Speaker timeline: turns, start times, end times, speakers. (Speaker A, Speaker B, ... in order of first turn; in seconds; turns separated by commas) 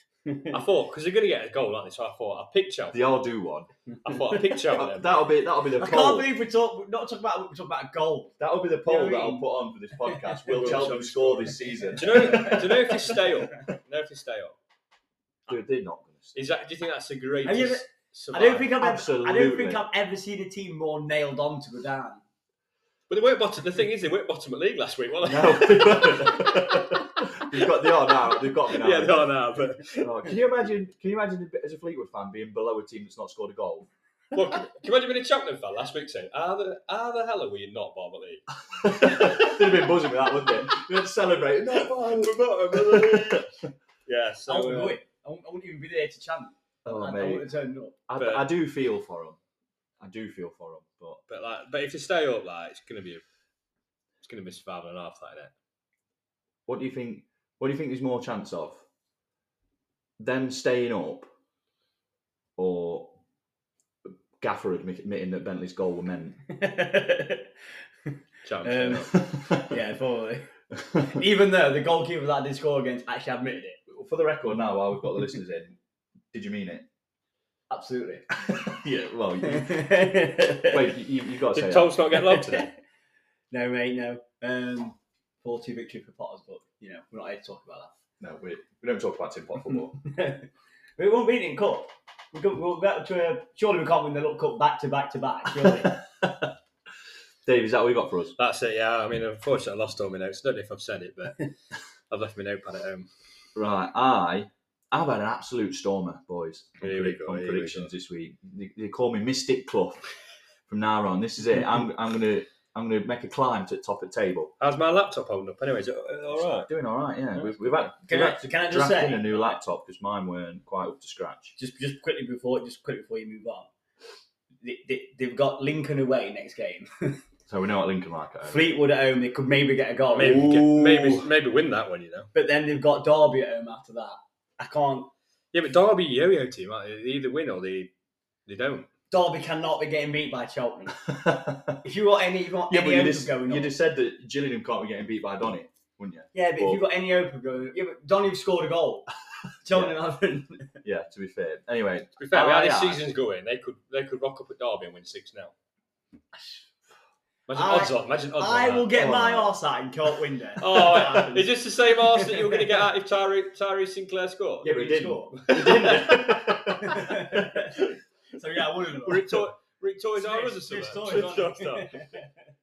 Speaker A: 0.2-0.6, Speaker B: 0.5-3.0, Speaker C: 2.9-3.7, Speaker B: 4.0-5.1, Speaker C: 4.6-6.3, Speaker A: 5.8-9.4, Speaker C: 8.4-13.2, Speaker A: 10.1-10.8, Speaker B: 10.5-14.6, Speaker A: 11.7-13.1, Speaker C: 15.5-16.4, Speaker B: 16.3-18.7, Speaker A: 17.4-22.2, Speaker C: 18.8-19.8, Speaker B: 23.1-30.4, Speaker C: 25.2-29.3, Speaker C: 30.0-33.9, Speaker B: 34.3-38.5, Speaker C: 38.7-43.5, Speaker B: 41.7-43.5, Speaker B: 44.0-45.0, Speaker A: 44.5-48.0, Speaker C: 46.8-47.5, Speaker C: 48.1-49.4, Speaker B: 48.2-48.5, Speaker C: 50.0-51.2, Speaker B: 51.3-53.2, Speaker B: 54.2-55.5, Speaker C: 56.7-58.8, Speaker C: 60.2-61.3, Speaker C: 62.6-63.2, Speaker C: 64.4-66.4, Speaker A: 66.5-67.5, Speaker A: 68.1-73.8, Speaker B: 68.4-69.2, Speaker C: 68.9-69.7, Speaker C: 70.8-71.1, Speaker C: 73.9-75.8, Speaker C: 76.3-76.9, Speaker A: 77.7-78.3, Speaker C: 78.3-80.0, Speaker A: 79.4-80.8, Speaker C: 80.6-81.9, Speaker B: 81.5-82.7, Speaker A: 82.1-82.7, Speaker A: 83.5-87.9, Speaker C: 88.2-90.0, Speaker A: 89.9-96.0, Speaker C: 95.6-96.5, Speaker C: 97.4-98.3, Speaker B: 98.3-101.5, Speaker B: 102.1-103.1, Speaker C: 103.5-110.1, Speaker B: 106.8-107.9, Speaker C: 110.7-114.5, Speaker B: 114.6-116.7, Speaker C: 116.3-121.5, Speaker B: 117.3-117.8, Speaker A: 118.1-119.5, Speaker A: 121.6-123.7, Speaker A: 124.6-127.2, Speaker C: 127.5-128.7, Speaker A: 128.4-130.5, Speaker B: 130.1-132.3, Speaker C: 130.2-131.3, Speaker A: 132.3-135.1, Speaker B: 135.5-137.9, Speaker B: 138.4-138.9, Speaker A: 139.1-141.0, Speaker C: 141.1-141.8, Speaker A: 141.8-143.7, Speaker C: 142.7-146.8, Speaker A: 146.3-149.1, Speaker A: 149.6-150.8, Speaker C: 149.7-150.0, Speaker C: 150.8-153.0, Speaker B: 152.2-155.5, Speaker A: 156.3-156.6, Speaker B: 157.5-158.9, Speaker A: 157.5-161.6, Speaker C: 158.9-159.5, Speaker B: 160.6-164.7, Speaker A: 162.1-162.8, Speaker A: 164.6-165.8, Speaker C: 164.6-168.0, Speaker B: 165.3-166.6, Speaker A: 166.7-167.8, Speaker A: 168.3-169.4, Speaker B: 169.0-172.2, Speaker A: 170.2-172.4